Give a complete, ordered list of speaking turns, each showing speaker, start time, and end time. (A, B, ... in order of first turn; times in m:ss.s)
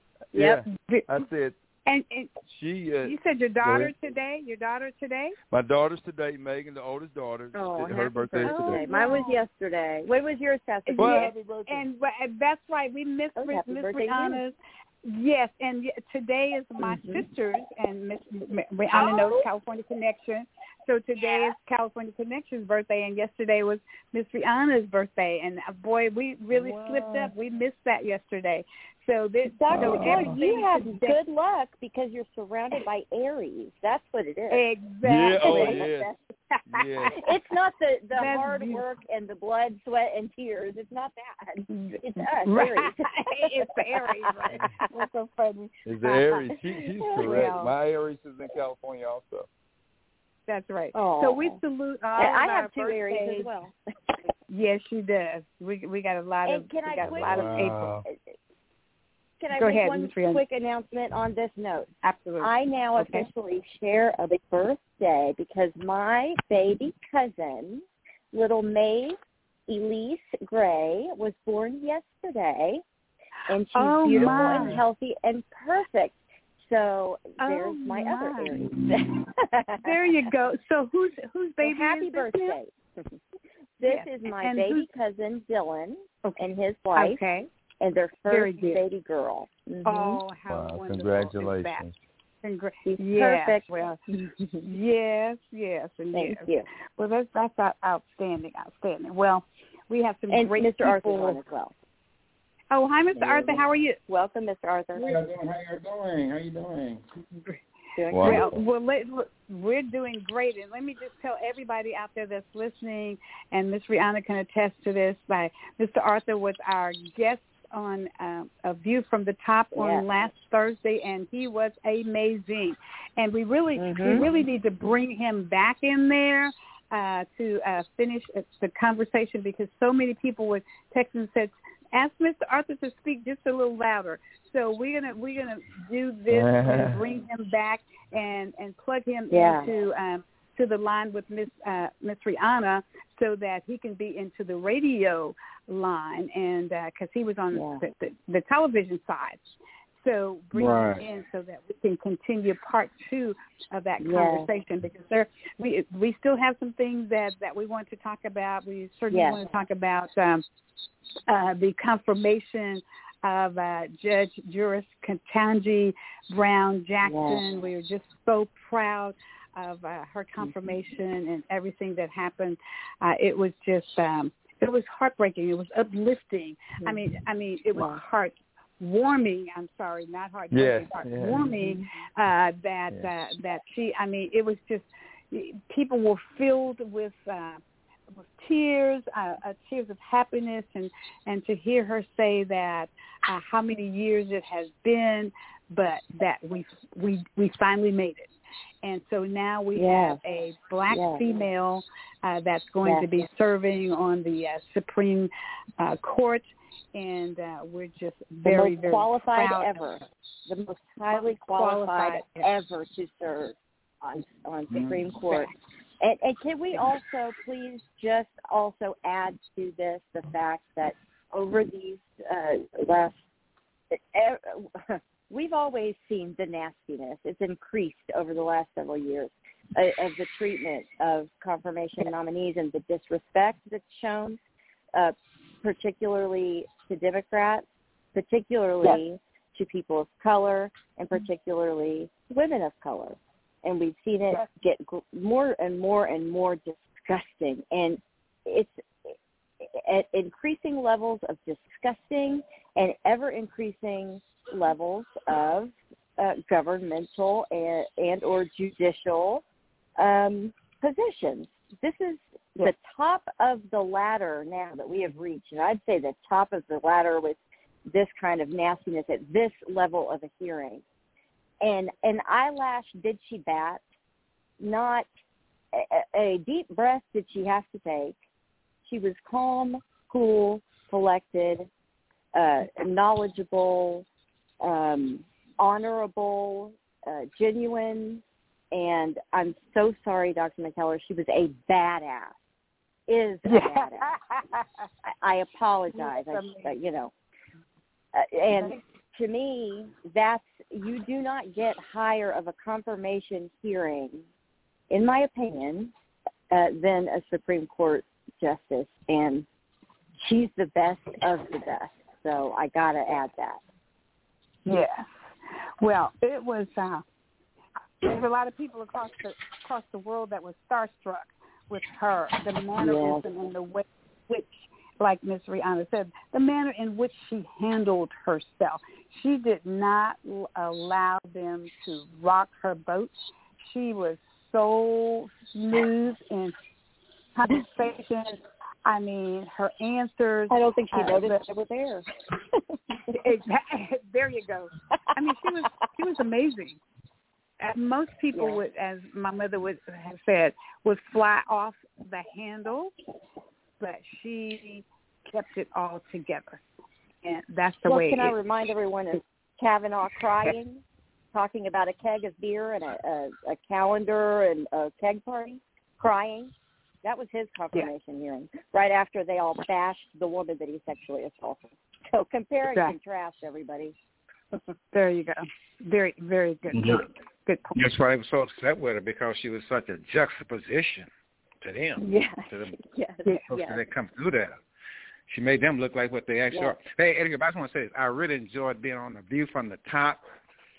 0:00.3-0:00.6 A
0:00.3-0:01.6 B
0:00.7-0:01.1 C
0:01.9-0:02.3 C
0:02.5-0:03.9 B
0:03.0-0:05.4 C
0:05.5-0:09.1 B
0:07.5-0:11.8 A
0:08.4-0:09.4 C
0:10.9-0:31.2 C
0:11.0-0:11.7 B
0:13.4-0:14.4 A
0:16.8-0:17.2 A
0:18.9-0:19.5 A
0:21.2-0:21.5 A
0:26.5-0:27.3 A
0:29.5-0:34.7 A
0:29.7-0:30.4 B
0:34.5-0:37.3 C
0:35.0-0:36.1 B
0:35.4-0:36.1 A
0:36.7-0:37.2 B
0:37.2-0:44.5 A
0:38.2-0:38.8 C
0:41.7-0:46.3 C
0:45.9-0:49.5 B
0:47.0-0:47.5 A
0:47.1-0:47.7 C
0:50.5-0:53.5 C
0:50.9-0:51.6 A
0:52.2-0:53.7 A
0:54.5-0:58.0 C
0:56.5-0:58.3 A
0:57.0-0:58.0 B
0:59.4-1:01.9 A
0:59.5-1:00.4 C
1:02.0-1:03.2 C
1:02.4-1:09.2 A
1:09.7-1:12.8 A
1:13.5-1:16.2 A
1:13.8-1:14.8 C
1:14.1-1:14.7 B
1:16.7-1:19.9 A
1:17.4-1:18.5 C
1:19.8-1:22.6 C
1:21.6-1:22.7 A
1:23.8-1:27.2 A
1:23.9-1:24.9 C
1:27.0-1:27.5 C
1:27.8-1:30.2 A
1:28.3-1:28.8 C
1:29.8-1:31.9 C
1:30.5-1:32.0 B
1:32.4-1:34.0 C
1:32.9-1:34.6 A
1:34.6-1:41.4 C
1:36.1-1:36.7 A
1:40.3-1:41.7 A
1:42.7-1:44.0 C
1:43.2-1:43.7 D
1:44.1-1:45.2 A
1:45.0-1:47.0 D
1:48.0-1:48.6 A
1:48.1-1:48.6 B
1:48.2-2:29.4 C
1:59.8-2:00.0 A
2:03.8-2:04.3 A
2:16.3-2:17.0 B
2:19.3-2:19.7 A
2:27.5-2:27.8 A
2:30.0-2:40.4 C
2:30.6-2:31.0 D
2:34.0-2:34.5 A
2:39.1-2:39.4 A
2:41.3-3:07.6 C
2:47.0-2:47.4 A
2:57.8-2:58.0 A
3:00.5-3:01.6 B
3:01.2-3:01.8 A
3:08.2-3:18.3 C
3:18.8-3:30.0 C
3:19.8-3:20.2 A
3:20.9-3:21.3 A
3:22.8-3:23.1 A
3:28.4-3:43.2 A
3:31.5-3:32.4 C
3:43.9-3:54.4 A
3:54.9-4:09.1 A
4:09.7-4:19.4 A
4:20.0-4:27.4 A
4:27.9-4:30.8 A
4:31.6-4:33.8 A
4:34.6-4:35.1 A
4:35.7-4:38.2 A
4:38.9-4:41.7 A
4:42.3-4:44.0 A
4:44.6-4:52.4 A
4:53.1-4:54.1 A
4:53.5-4:54.7 C
4:55.1-4:57.1 A
4:55.9-4:56.7 C
4:58.1-5:04.2 A
5:04.9-5:05.9 A
5:06.5-5:09.5 A
5:10.2-5:13.6 A
5:14.7-5:15.1 C
5:15.8-5:17.0 C
5:18.0-5:36.6 C
5:22.8-5:23.2 A
5:37.4-5:41.4 C
5:40.5-5:42.8 A
5:43.1-5:46.8 C
5:47.6-5:52.9 C
5:48.3-5:48.6 A
5:53.8-5:56.6 C
5:57.2-5:58.4 C
5:57.9-6:00.8 A
6:01.3-6:13.9 A
6:12.7-6:13.0 C
6:14.9-6:17.8 C
6:16.7-6:17.0 D
6:17.8-6:21.1 D
6:21.6-6:22.8 D
6:22.0-6:23.8 A
6:23.5-6:24.6 D
6:25.3-6:30.2 D